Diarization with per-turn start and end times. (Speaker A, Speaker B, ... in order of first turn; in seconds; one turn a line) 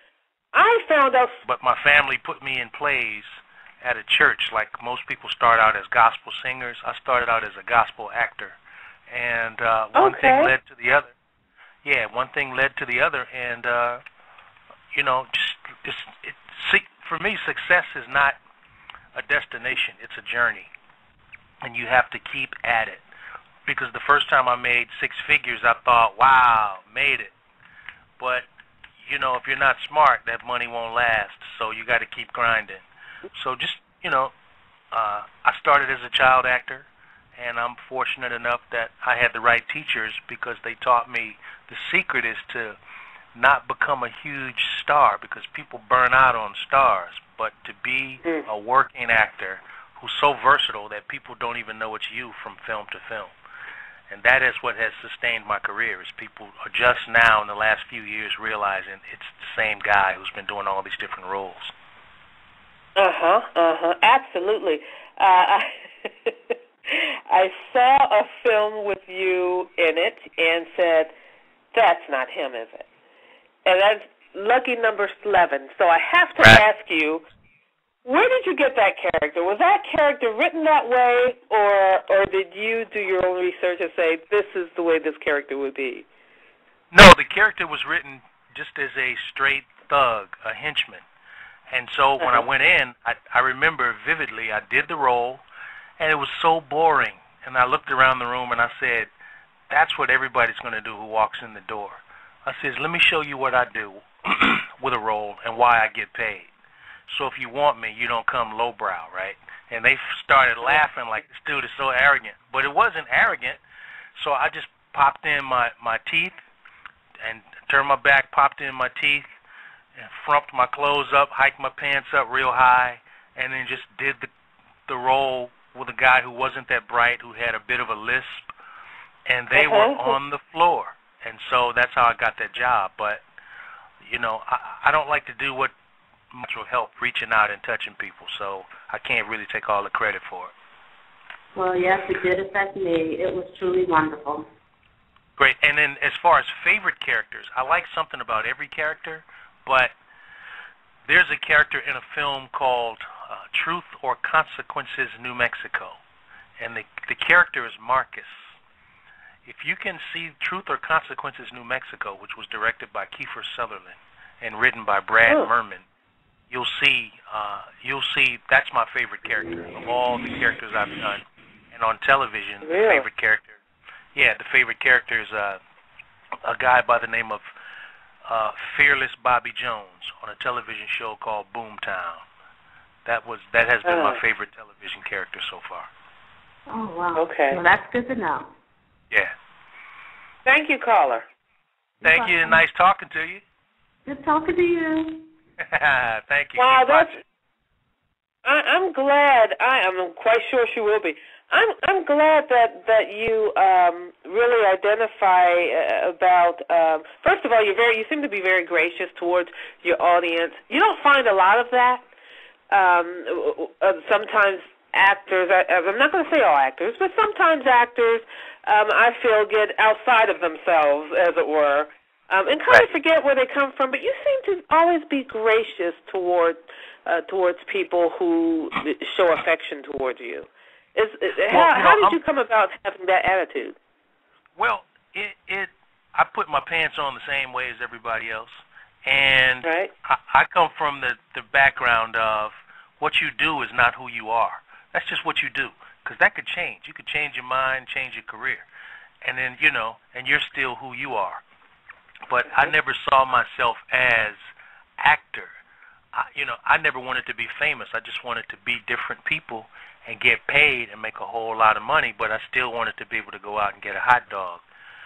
Speaker A: 0.5-1.4
Speaker B: 1.4-8.6
Speaker B: 9.1-11.1
Speaker A: 9.9-10.5
Speaker B: 11.8-14.0
Speaker B: 14.9-18.4
Speaker B: 19.1-20.7
Speaker B: 21.6-23.0
Speaker B: 23.6-27.3
Speaker B: 28.2-28.4
Speaker B: 29.0-34.3
Speaker B: 34.9-42.8
Speaker B: 43.4-53.3
Speaker B: 54.1-61.7
Speaker A: 63.0-71.1
Speaker A: 71.7-72.8
Speaker A: 73.6-77.2
Speaker A: 78.0-86.1
Speaker B: 86.9-91.0
Speaker B: 91.7-95.4
Speaker A: 92.2-92.5
Speaker B: 96.0-99.1
Speaker B: 99.7-106.5
Speaker B: 107.1-113.6
Speaker B: 114.2-116.4
Speaker B: 117.2-119.3
Speaker B: 120.0-124.3
Speaker B: 124.9-128.5
Speaker B: 129.3-133.2
Speaker A: 129.5-130.2
Speaker B: 134.0-135.7
Speaker B: 136.3-140.5
Speaker C: 141.6-144.4
Speaker B: 145.4-149.9
Speaker B: 151.1-156.0
Speaker B: 156.6-158.5
Speaker B: 159.4-165.8
Speaker B: 166.5-173.6
Speaker A: 172.6-173.1
Speaker B: 174.1-175.6
Speaker B: 176.4-177.4
Speaker B: 178.3-182.2
Speaker B: 183.1-185.9
Speaker A: 183.8-184.2
Speaker C: 186.7-188.5
Speaker A: 187.2-187.6
Speaker A: 190.4-191.3
Speaker C: 192.0-192.6
Speaker B: 192.0-193.4
Speaker C: 194.1-195.3
Speaker B: 195.6-197.2
Speaker A: 196.6-197.2
Speaker A: 198.4-212.1
Speaker A: 212.7-233.8
Speaker B: 231.5-232.2
Speaker B: 234.6-248.6
Speaker A: 239.6-239.9
Speaker B: 249.2-251.4
Speaker B: 252.3-254.4
Speaker B: 255.0-255.5
Speaker B: 256.1-264.6